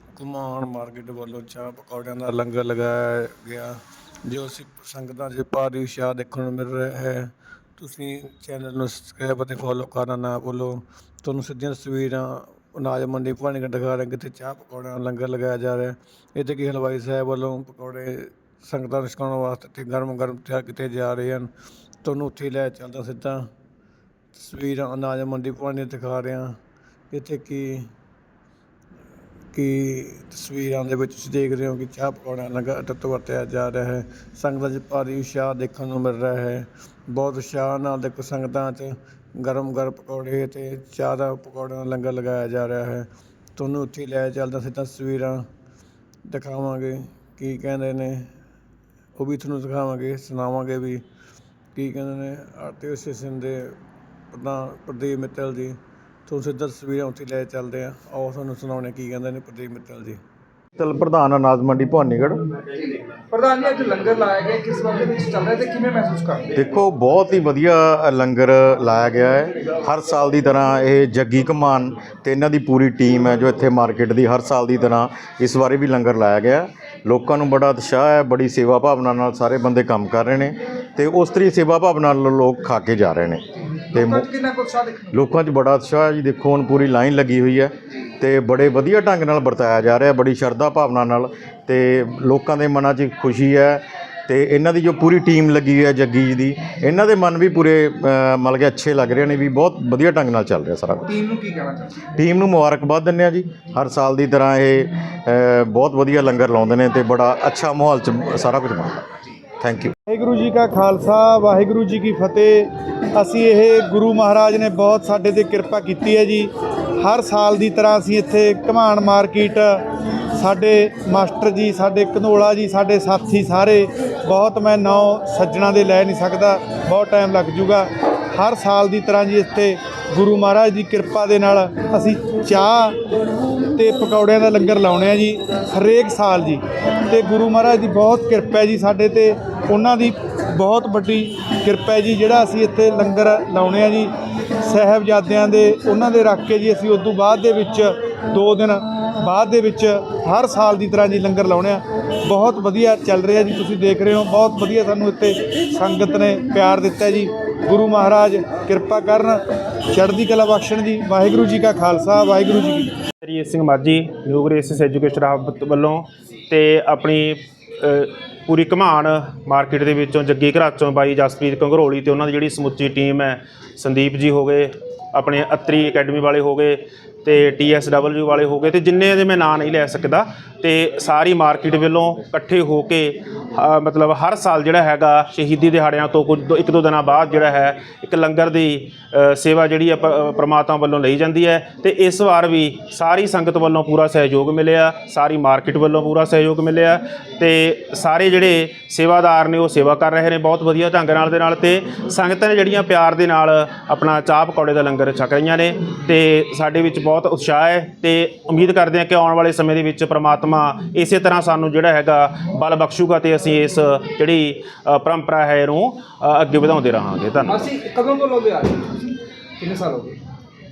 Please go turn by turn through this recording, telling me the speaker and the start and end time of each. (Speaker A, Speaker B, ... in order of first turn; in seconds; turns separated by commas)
Speaker A: 0.1-21.5, Speaker A: 22.0-23.5, Speaker A: 24.4-26.6, Speaker A: 27.1-27.9, Speaker A: 29.5-45.5, Speaker A: 46.3-48.3, Speaker A: 49.2-51.0, Speaker A: 51.8-53.8, Speaker A: 54.3-60.2, Speaker B: 60.8-62.4, Speaker C: 62.7-66.5, Speaker B: 66.5-84.3, Speaker C: 83.7-85.2, Speaker B: 85.1-101.0, Speaker C: 101.1-102.0, Speaker B: 102.1-109.1, Speaker B: 109.6-109.9, Speaker D: 110.1-119.8, Speaker D: 120.4-133.0, Speaker D: 133.8-144.1, Speaker D: 144.6-159.4, Speaker D: 159.9-162.9, Speaker E: 163.2-217.7, Speaker C: 217.5-220.2